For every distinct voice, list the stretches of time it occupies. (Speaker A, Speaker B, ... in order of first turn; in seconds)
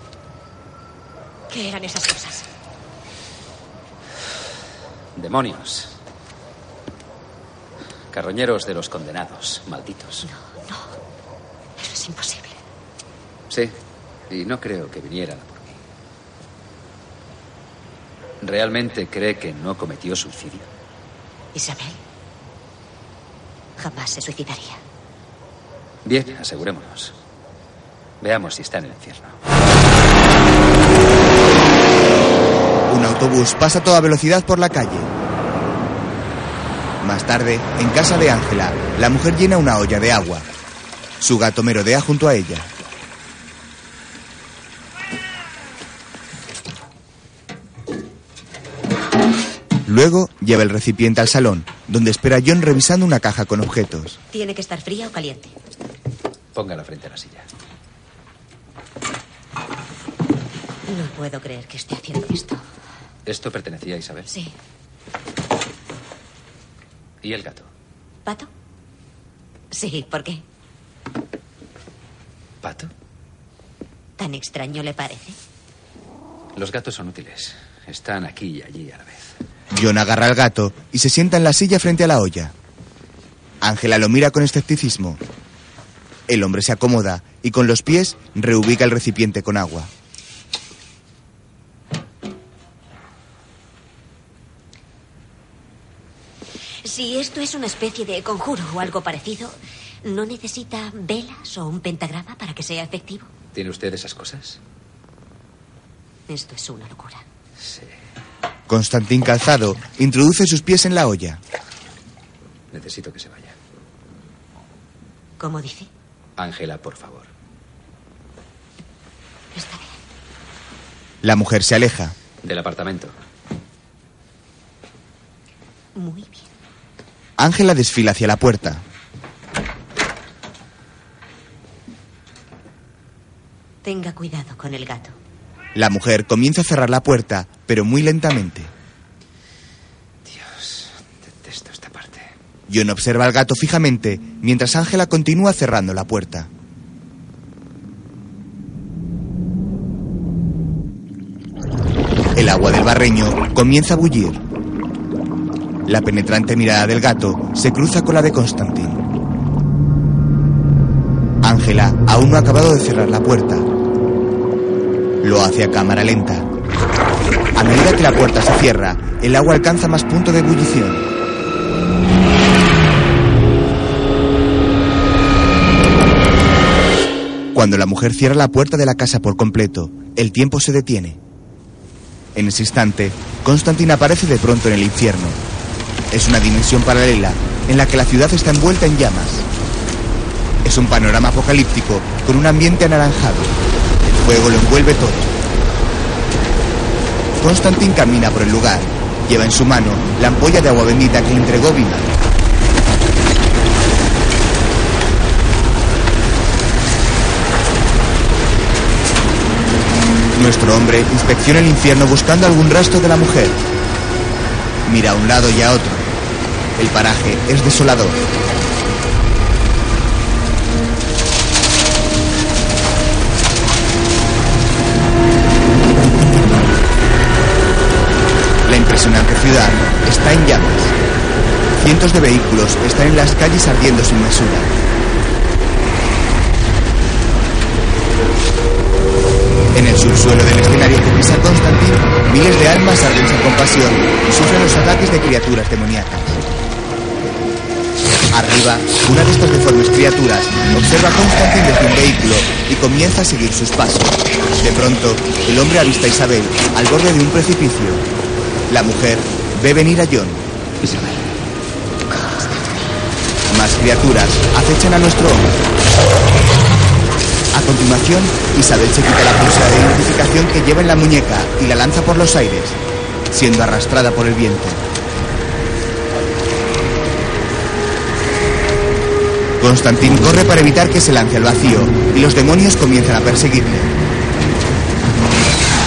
Speaker A: 1.5-2.5, 10.2-11.0, 11.8-12.6, 21.6-22.0, 23.8-24.8, 54.3-55.5, 60.9-62.6, 64.3-64.5, 68.2-68.5, 69.7-70.4, 74.2-75.4, 96.8-103.3, 106.3-107.2, 115.4-115.9, 119.5-119.9, 126.0-126.5, 133.8-135.2, 262.3-262.8
Speaker B: 5.2-6.0, 8.1-10.3, 13.5-13.8, 14.3-15.8, 18.4-20.7, 26.1-27.1, 28.2-29.4, 56.5-57.5, 63.3-64.3, 67.2-67.7, 72.6-72.9, 76.5-79.3, 103.5-104.6, 107.6-107.9, 112.7-113.5, 116.4-117.3, 122.4-123.1, 140.3-142.3, 260.8-261.2
Speaker C: 32.9-35.1, 37.0-40.5, 41.2-42.7, 49.9-54.2, 79.7-82.5, 83.6-85.2, 86.3-89.9, 108.7-111.4, 121.2-122.2, 127.4-128.8, 135.8-138.7, 142.7-146.5, 152.3-154.4, 155.9-159.0, 161.4-163.7, 165.2-166.5, 167.6-171.1, 177.5-181.2, 182.3-185.4, 186.1-189.5, 190.6-195.3, 197.4-202.1, 210.3-213.6, 214.8-216.1, 216.8-218.2, 228.7-230.9, 231.8-234.7, 239.7-246.4, 248.3-258.1, 258.7-260.4, 263.5-265.6, 267.5-272.8, 273.3-274.8, 279.6-283.9